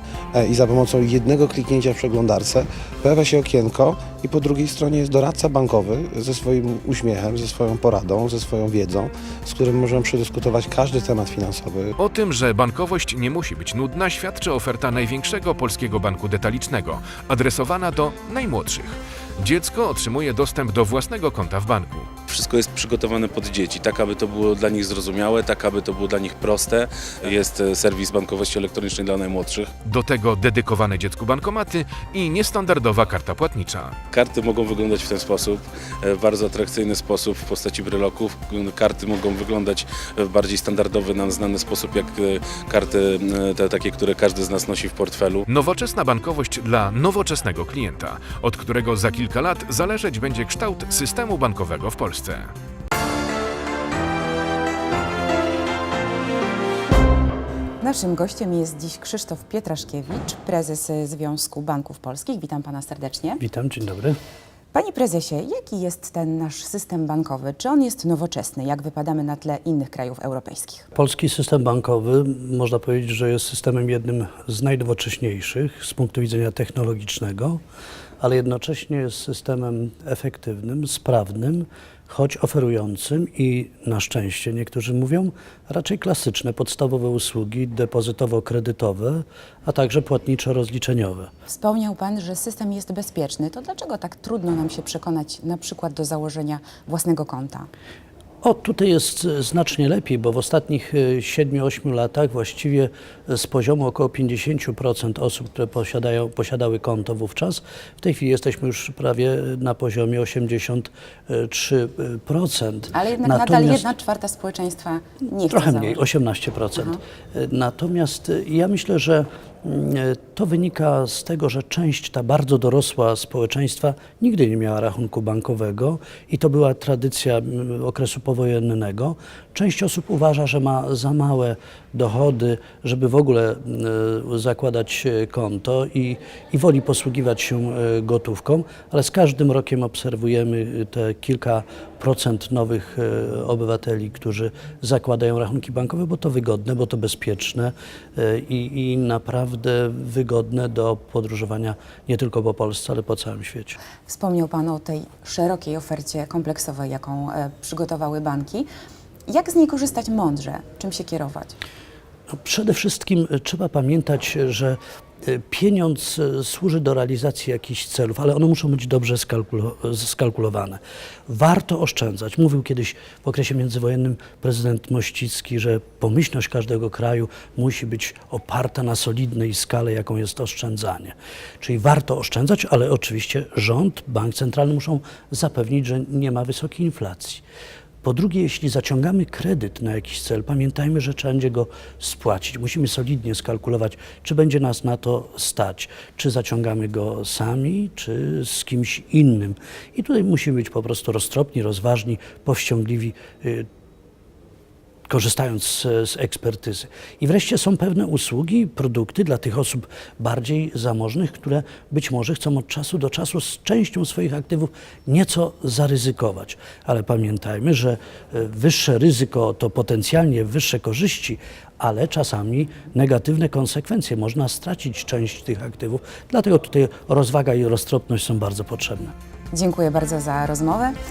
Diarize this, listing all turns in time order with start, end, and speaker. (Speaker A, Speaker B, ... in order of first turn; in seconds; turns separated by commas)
Speaker A: 0.3-11.9, Speaker B: 12.0-22.1, Speaker C: 22.3-29.7, Speaker B: 29.9-34.0, Speaker C: 34.1-45.4, Speaker B: 45.5-52.5, Speaker D: 57.8-63.4, Speaker E: 63.4-64.2, Speaker D: 64.7-70.8, Speaker E: 71.0-77.6, Speaker E: 78.2-91.3, Speaker D: 91.5-97.7, Speaker E: 98.4-113.9, Speaker D: 112.9-116.0, Speaker E: 115.5-153.8, Speaker D: 154.1-158.7, Speaker D: 159.3-161.6, Speaker E: 162.3-187.4, Speaker E: 188.0-203.7, Speaker E: 205.1-229.1, Speaker D: 229.5-231.0